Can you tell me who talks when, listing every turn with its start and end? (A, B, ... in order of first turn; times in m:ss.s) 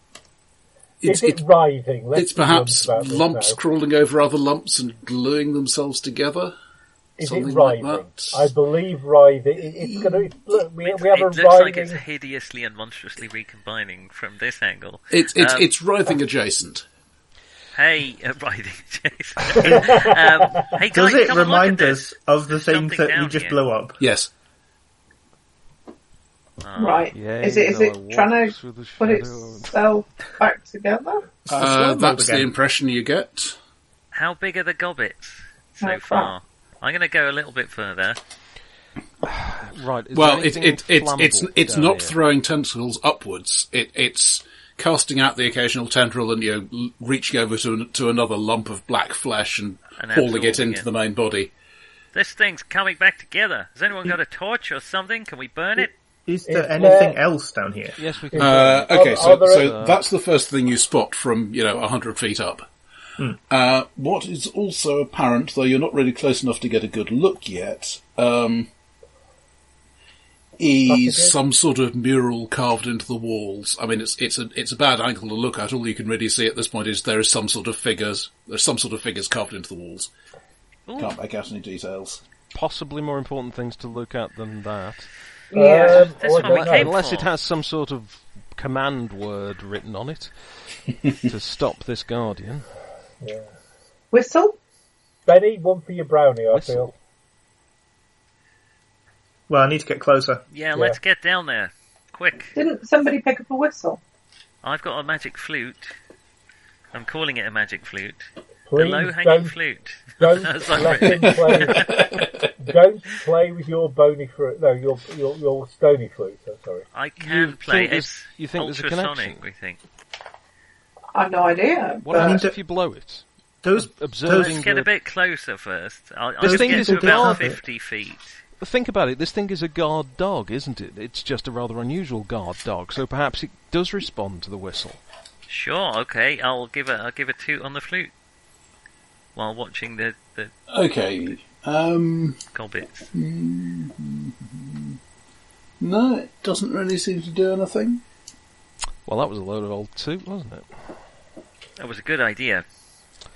0:01.0-0:01.4 A
0:01.0-0:03.6 B
0:02.1-0:06.5 A
0:07.2-0:12.0 B
0:07.2-0:08.4 A
0:09.8-0:10.3 A
0:10.8-0:15.7 C
0:15.1-0:16.8 A
0:17.7-0:23.6 C
0:19.6-0:20.2 B
0:20.9-0:24.0 D
0:24.0-0:24.3 A
0:26.6-0:27.1 C
0:26.8-0:31.3 E
0:27.1-0:29.8 F
0:31.4-0:32.5 D
0:31.5-0:33.6 A
0:34.1-0:38.2 C
0:35.8-0:36.3 E
0:39.2-0:42.2 F
0:40.1-0:51.5 A
0:50.0-0:50.8 C
0:52.1-0:55.9 C
0:56.2-0:58.0 D
0:56.5-0:57.2 B
0:58.0-1:00.0 F
0:58.3-0:59.8 B
0:58.4-1:02.7 A
1:03.5-1:08.7 A
1:10.6-1:20.1 A
1:10.9-1:11.4 B
1:20.9-1:21.1 C
1:21.0-1:22.2 A
1:22.5-1:25.1 F
1:25.5-1:26.2 E
1:25.5-1:26.9 B
1:25.9-1:27.3 C
1:26.3-1:30.3 F
1:31.1-1:32.7 F
1:33.2-1:33.5 B
1:34.1-1:34.6 E
1:35.2-1:36.9 B
1:36.5-1:36.9 F
1:39.5-1:40.4 D
1:40.5-1:42.5 C
1:42.5-1:44.0 E
1:44.6-1:45.9 C
1:46.9-1:52.1 C
1:48.7-1:49.5 B
1:50.2-1:56.8 B
1:50.9-1:52.2 A
1:56.9-1:59.8 C
1:57.2-1:59.4 F
2:01.1-2:02.4 E
2:02.0-2:04.9 F
2:02.1-2:02.5 D
2:03.6-2:04.6 D
2:04.3-2:08.4 C
2:06.4-2:07.6 D
2:06.4-2:07.4 F
2:08.6-2:15.0 F
2:15.5-2:18.1 C
2:19.3-2:20.5 C
2:20.7-2:22.4 A
2:22.5-2:23.1 C
2:23.1-2:25.0 A
2:25.8-2:28.0 A
2:29.0-2:30.9 F
2:31.8-2:32.6 C